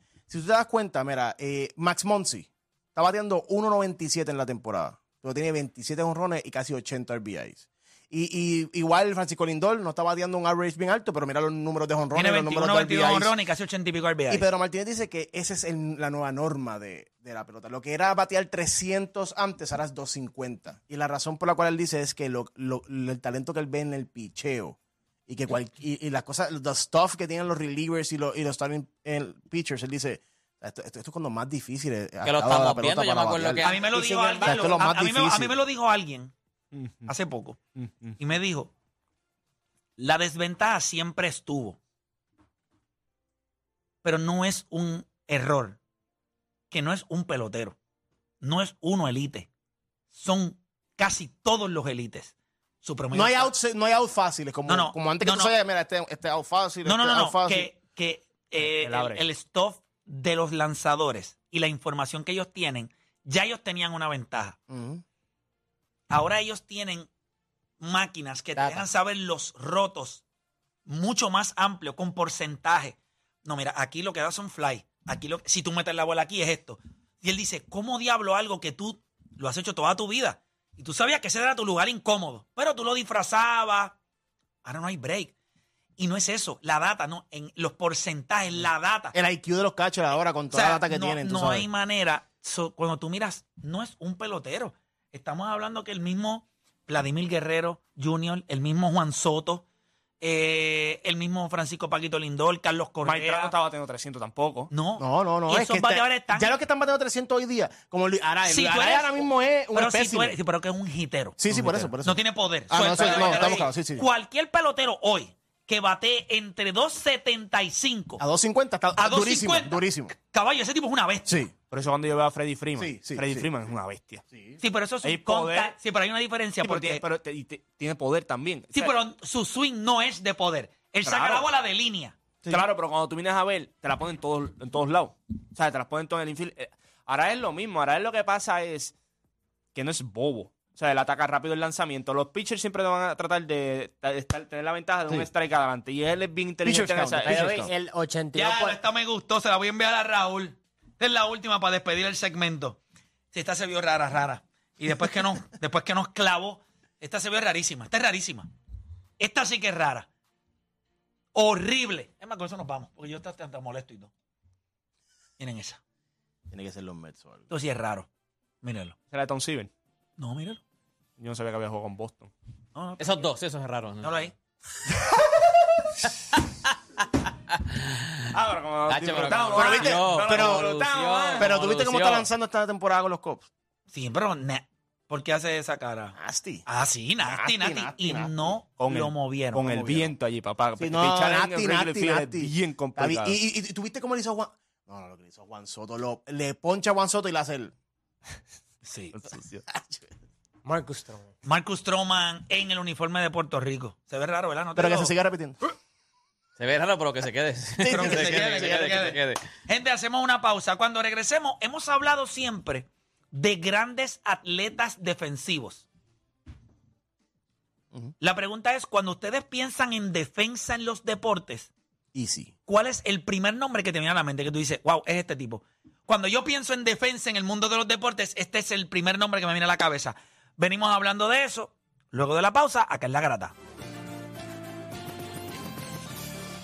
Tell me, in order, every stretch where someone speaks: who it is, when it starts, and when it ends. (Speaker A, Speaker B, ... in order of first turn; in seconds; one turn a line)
Speaker A: 0.3-13.3
Speaker B: 12.1-14.5
Speaker A: 14.3-24.8
Speaker A: 25.3-35.6
Speaker C: 32.2-34.0
Speaker B: 33.6-36.3
Speaker D: 36.7-37.1
Speaker B: 37.1-37.6
Speaker D: 37.8-38.2
Speaker B: 38.2-38.7
Speaker B: 40.0-41.8
Speaker B: 44.0-45.8
Speaker B: 46.7-47.8
Speaker B: 48.4-49.5
Speaker B: 50.1-53.5
Speaker A: 53.1-57.7
Speaker B: 54.7-55.5
Speaker B: 56.8-64.6
Speaker D: 58.6-59.2
Speaker A: 64.7-65.0
Speaker B: 66.1-67.1
Speaker B: 67.8-70.2
Speaker E: 68.5-68.8
Speaker B: 70.8-84.0
Speaker B: 84.6-85.3
Speaker B: 86.0-89.1
Speaker A: 89.1-91.7
Speaker B: 90.5-99.6
Speaker B: 100.2-103.5
Speaker D: 103.0-104.7
Speaker B: 104.7-106.5
Speaker A: 105.0-110.3
Speaker B: 108.4-111.4
Speaker A: 111.4-114.0
Speaker D: 111.5-111.9
Speaker B: 112.0-118.2
Speaker D: 112.9-113.6
Speaker A: 118.2-120.1
Speaker B: 119.0-121.5
Speaker A: 121.2-121.5
Speaker D: 121.7-124.2
Speaker A: 122.8-123.5
Speaker A: 124.3-124.6
Speaker B: 124.6-127.0
Speaker D: 125.0-125.7
Speaker D: 126.6-128.9
Speaker B: 128.7-132.1
Speaker D: 131.0-131.5
Speaker D: 132.5-138.9
Speaker D: 139.7-147.5
Speaker A: 146.6-147.7
Speaker E: 147.2-148.8
Speaker B: 148.3-152.8
Speaker B: 153.3-158.5
Speaker B: 159.2-160.1
Speaker B: 161.3-164.1
Speaker B: 165.4-165.8
Speaker A: 166.5-167.4
Speaker B: 167.5-168.1
Speaker B: 168.6-168.9
Speaker D: 169.1-169.7
Speaker B: 170.2-170.6
Speaker D: 171.2-172.3
Speaker B: 172.7-173.2
Speaker C: 173.0-174.3
Speaker B: 174.0-174.3
Speaker D: 175.0-175.3
Speaker C: 177.5-178.2
Speaker D: 178.3-181.5
Speaker C: 178.9-182.3
Speaker A: 179.5-180.7
Speaker A: 181.4-183.5
Speaker B: 183.9-186.1
Speaker A: 186.1-186.6
Speaker B: 186.7-189.7
Speaker A: 187.2-188.5
Speaker D: 188.8-193.4
Speaker A: 189.6-190.1
Speaker A: 190.8-197.7
Speaker B: 198.8-199.2
Speaker D: 199.1-199.6
Speaker A: 199.7-200.1
Speaker E: 200.6-201.3
Speaker B: 201.4-205.1
Speaker A: 204.8-205.6
Speaker C: 206.6-209.4
Speaker A: 207.8-209.1
Speaker B: 207.9-215.8
Speaker B: 218.2-221.7
Speaker A: 222.1-222.5
Speaker B: 222.7-233.5